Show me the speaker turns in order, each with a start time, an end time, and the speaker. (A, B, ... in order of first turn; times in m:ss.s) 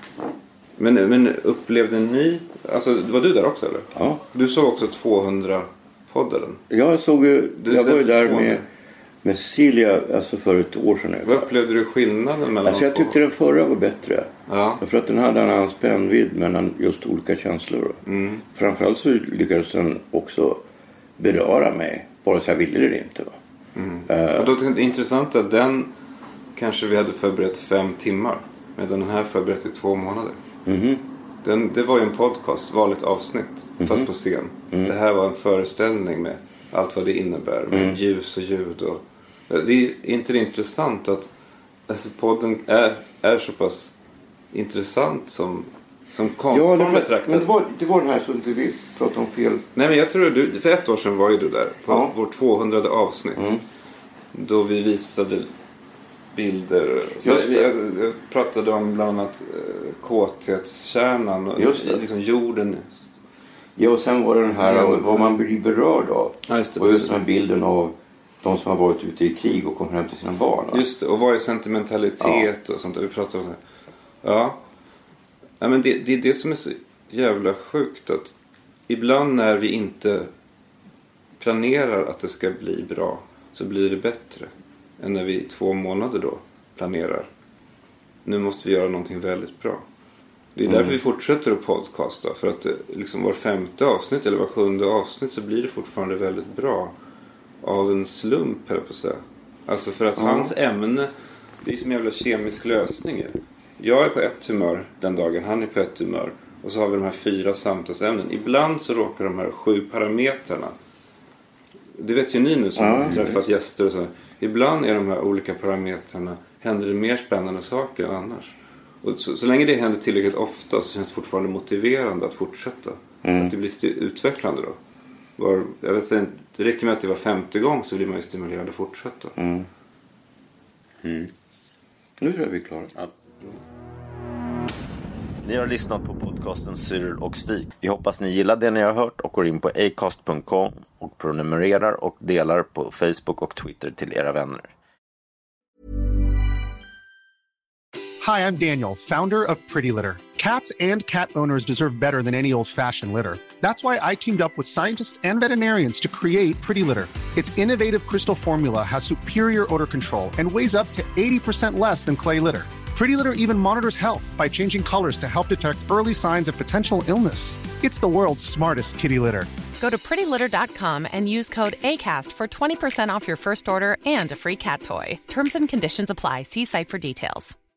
0:00.8-0:06.6 A
0:03.9-0:04.2 B
0:06.7-0:08.6 B
0:07.6-0:08.6 A
0:09.2-0:11.5 B
0:11.2-0:13.2 A
0:12.6-0:20.6 B
0:14.5-0:14.8 A
0:18.0-0:18.4 A
0:21.2-0:23.4 B
0:23.7-0:25.9 A
0:24.1-0:24.6 B
0:26.6-0:30.4 A
0:30.6-0:31.0 B
0:31.4-0:41.3 A
0:33.8-0:34.1 B
0:34.7-0:35.0 B
0:37.7-0:38.0 B
0:41.9-0:43.9 A
0:44.5-0:47.5 A
0:46.5-0:49.6 B
0:49.7-0:53.5 A
0:51.9-0:52.1 B
0:53.4-0:53.6 B
0:54.3-0:55.5 A
0:56.3-1:03.1 A
0:57.2-0:57.7 B
1:01.6-1:02.0 B
1:03.8-1:10.8 B
1:04.5-1:05.4 A
1:06.5-1:07.1 A
1:10.7-1:13.6 A
1:12.2-1:12.5 B
1:14.2-1:14.6 A
1:15.6-1:18.3 A
1:18.9-1:20.3 A
1:21.4-1:27.3 A
1:28.2-1:29.8 A
1:30.6-1:36.9 A
1:30.6-1:31.0 B
1:37.6-1:41.1 A
1:40.2-1:40.5 B
1:41.6-1:50.7 A
1:51.9-2:04.8 A
1:52.8-1:53.4 B
2:03.2-2:03.5 B
2:05.4-2:09.3 A
2:09.4-2:09.7 B
2:11.0-2:11.3 C
2:12.2-2:12.9 B
2:15.4-2:24.7 C
2:28.2-2:49.5 D
2:49.8-2:57.5 E